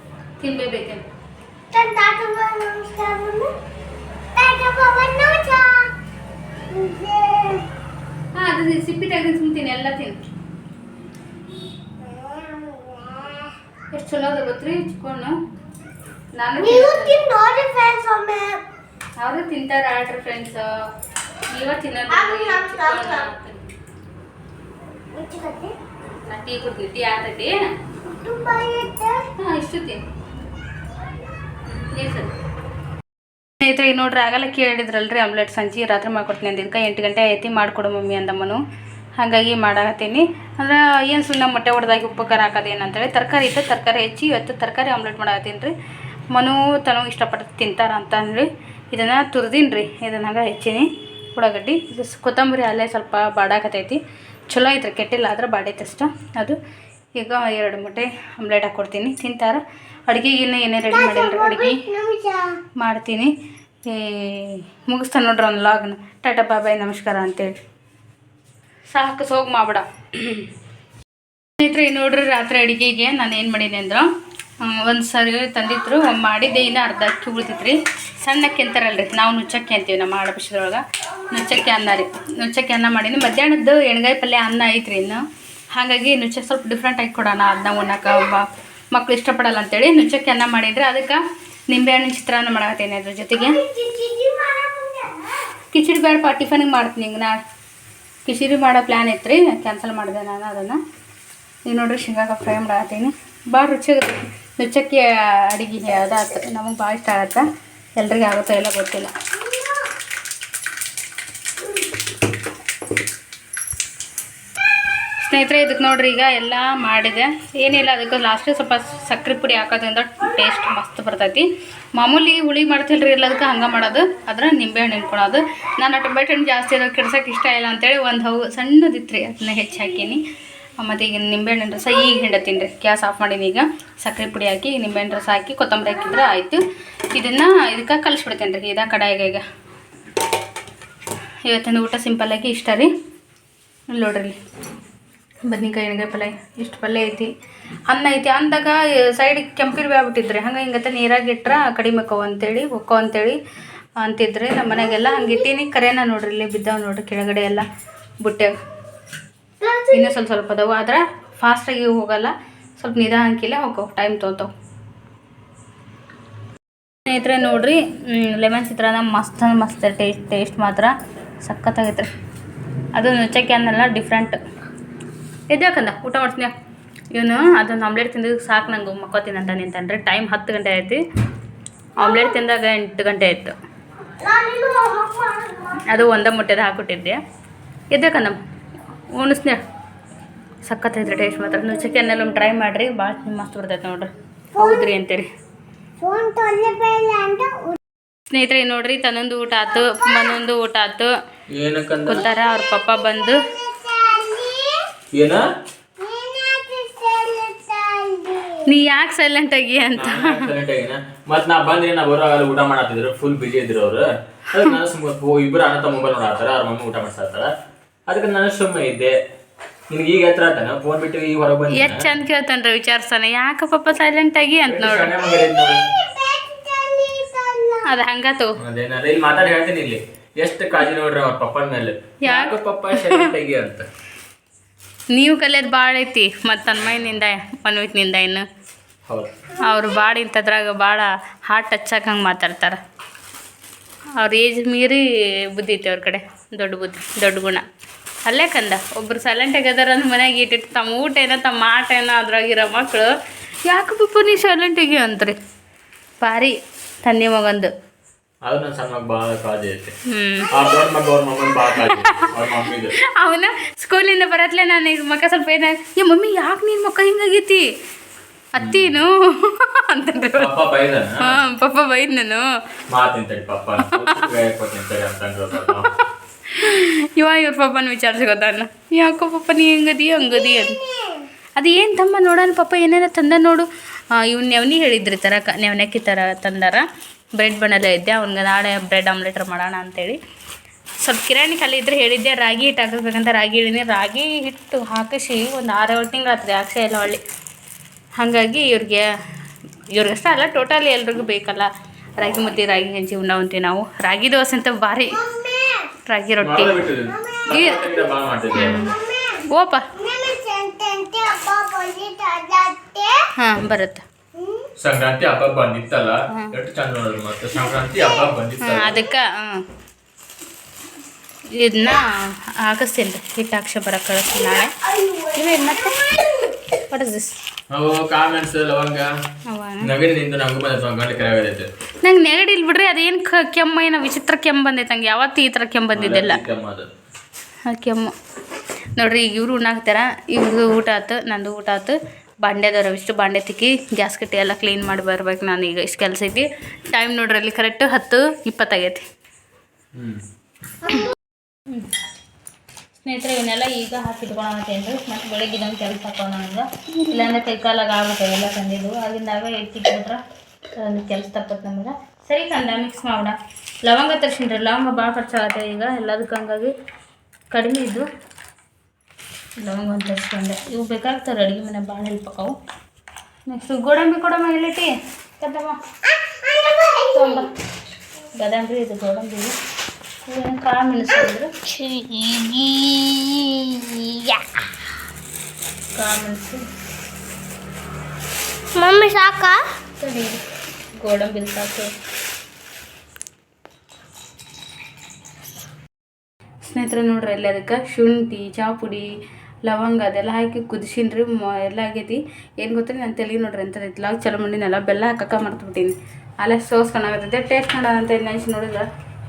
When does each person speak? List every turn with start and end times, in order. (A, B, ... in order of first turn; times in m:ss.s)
0:00.4-0:01.0 A
0:01.7-0:03.5 B
0:04.4-0:05.9 B
0:06.7-0:07.6 B
0:08.4-0:10.2 A
0:11.9-0:13.5 B
0:13.9-0:15.4 A
0:16.4-0:17.2 A
0:16.6-0:18.6 B
0:19.2-0:20.7 A
0:21.5-0:23.8 A
0:22.1-0:23.3 B
0:25.1-0:25.7 B
0:26.3-0:27.7 A
0:28.0-0:29.3 B
0:29.4-0:30.0 A
0:31.9-0:32.3 A
0:33.6-0:38.6 A
0:39.2-0:45.7 A
0:46.3-0:56.6 A
0:57.2-1:01.8 A
1:00.9-1:02.6 B
1:02.8-1:03.3 A
1:03.8-1:07.6 A
1:08.9-1:10.5 A
1:11.6-1:33.6 A
1:33.3-1:35.3 B
1:35.7-1:37.4 A
1:38.3-1:40.8 A
1:41.7-1:47.5 A
1:48.0-1:49.1 A
1:49.3-1:49.9 B
1:55.2-2:10.2 A
2:10.8-2:16.6 A
2:17.1-2:19.4 A
2:21.4-2:22.9 A
2:23.9-2:24.4 A
2:25.5-2:27.3 A
2:27.9-2:33.4 A
2:34.0-2:37.6 A
2:34.7-2:35.5 B
2:38.2-2:38.6 A
2:39.6-2:40.2 B
2:39.9-2:44.5 A
2:47.1-2:52.1 A
2:53.0-2:54.4 A
2:55.5-2:56.5 A
2:57.1-3:01.0 A
3:02.0-3:02.4 B
3:02.0-3:03.6 A
3:04.2-3:06.0 B
3:05.9-3:07.2 A
3:07.9-3:08.4 A
3:09.1-3:09.6 A
3:10.6-3:15.3 A
3:14.5-3:14.9 B
3:16.0-3:17.8 B
3:18.3-3:21.1 A
3:19.8-3:20.3 B
3:21.5-3:22.2 C
3:22.1-3:23.4 A
3:22.1-3:24.9 B
3:25.1-3:25.5 C
3:26.0-3:28.7 B
3:28.7-3:30.5 A
3:30.0-3:37.5 C
3:38.1-3:39.2 C
3:39.9-3:42.1 C
3:41.7-3:45.1 A
3:44.7-3:45.9 C
3:45.2-3:47.9 B
3:47.8-3:48.6 A
3:48.6-3:53.9 C
3:52.2-3:53.2 A
3:55.1-3:58.5 A
3:56.8-3:57.2 C
3:59.6-4:02.8 A
4:04.2-4:07.6 A
4:08.2-4:13.1 A
4:13.7-4:15.4 A
4:16.2-4:17.7 A
4:18.4-4:19.9 C
4:20.1-4:20.5 A
4:20.5-4:23.0 C
4:21.9-4:22.3 A
4:23.0-4:27.7 A
4:28.5-4:30.5 A
4:28.6-4:29.0 C
4:30.4-4:31.4 C
4:31.2-4:32.4 A
4:32.9-4:35.9 C
4:33.9-4:34.3 A
4:36.5-4:40.8 A
4:40.2-4:41.3 B
4:41.6-4:46.8 A
4:47.4-4:50.2 A
4:51.0-4:57.2 A
4:58.2-4:59.1 A
4:59.9-5:05.2 A
5:05.1-5:05.9 B
5:06.1-5:06.8 A
5:06.4-5:08.8 C
5:07.1-5:08.0 B
5:07.5-5:07.9 A
5:08.5-5:08.9 A
5:08.6-5:13.2 B
5:09.5-5:09.9 A
5:13.4-5:14.0 A
5:14.4-5:14.7 B
5:14.8-5:19.0 C
5:18.0-5:18.2 B
5:18.6-5:19.6 A
5:21.5-5:24.7 A
5:24.9-5:26.4 B
5:25.3-5:26.0 A
5:26.8-5:27.4 A
5:27.7-5:29.1 C
5:29.5-5:29.9 A
5:29.8-5:31.7 C
5:32.0-5:36.4 A
5:36.0-5:36.9 C
5:37.7-5:38.1 A
5:39.0-5:49.1 A
5:50.0-5:50.2 C
5:50.8-5:51.2 B
5:53.0-6:00.2 A
6:00.8-6:06.7 A
6:07.5-6:08.1 A
6:09.6-6:12.6 A
6:13.5-6:15.8 A
6:16.0-6:17.5 B
6:17.1-6:17.5 A
6:18.4-6:19.6 A
6:20.3-6:21.5 A
6:21.6-6:24.7 B
6:26.0-6:26.6 A
6:28.7-6:29.6 B
6:30.0-6:30.4 A
6:31.0-6:31.9 A
6:36.6-6:39.1 A
6:39.6-6:48.9 A